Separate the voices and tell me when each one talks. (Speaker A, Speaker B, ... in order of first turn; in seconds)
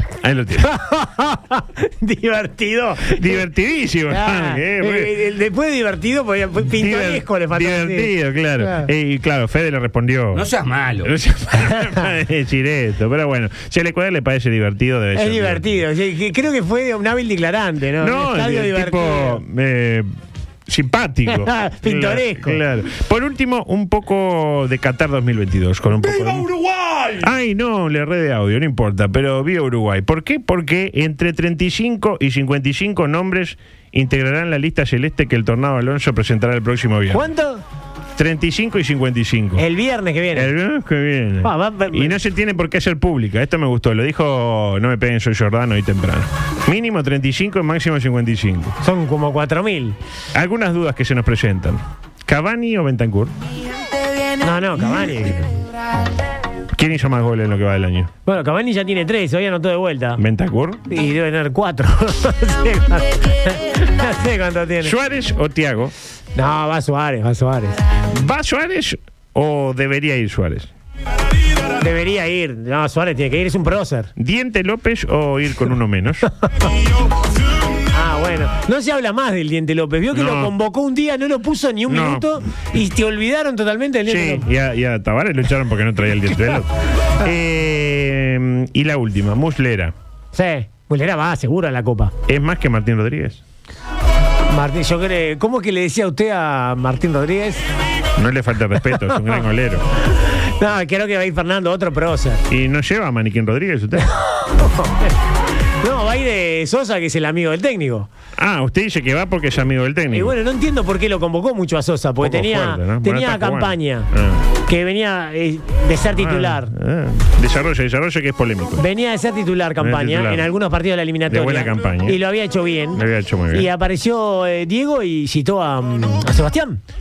Speaker A: 0.2-0.7, 3.1-5.2, 6.7-15.8, 18.0-20.1, 20.7-26.5, 27.2-37.3, 38.2-39.6, 40.3-48.8, 50.3-53.4, 56.8-58.1, 60.2-60.8, 64.8-65.9, 68.1-70.7, 74.2-76.3, 80.1-80.5, 81.9-82.4, 84.1-89.9, 92.3-93.4, 98.2-99.9, 102.5-104.1, 108.4-110.3, 112.2-114.5, 116.1-118.9, 119.8-120.5, 121.3-122.2, 122.9-123.7
Speaker B: 0.6-3.4, 4.1-8.9, 15.2-19.4, 21.3-22.6, 37.1-37.6, 39.6-40.5, 41.4-42.2, 48.8-50.0, 54.4-55.5, 58.3-60.2, 60.9-65.0, 66.4-67.8, 71.8-74.1, 77.9-84.5, 90.3-92.1, 94.5-97.6, 100.3-102.4, 104.2-105.1, 105.8-108.1, 110.1-114.1, 114.7-116.7, 118.8-126.8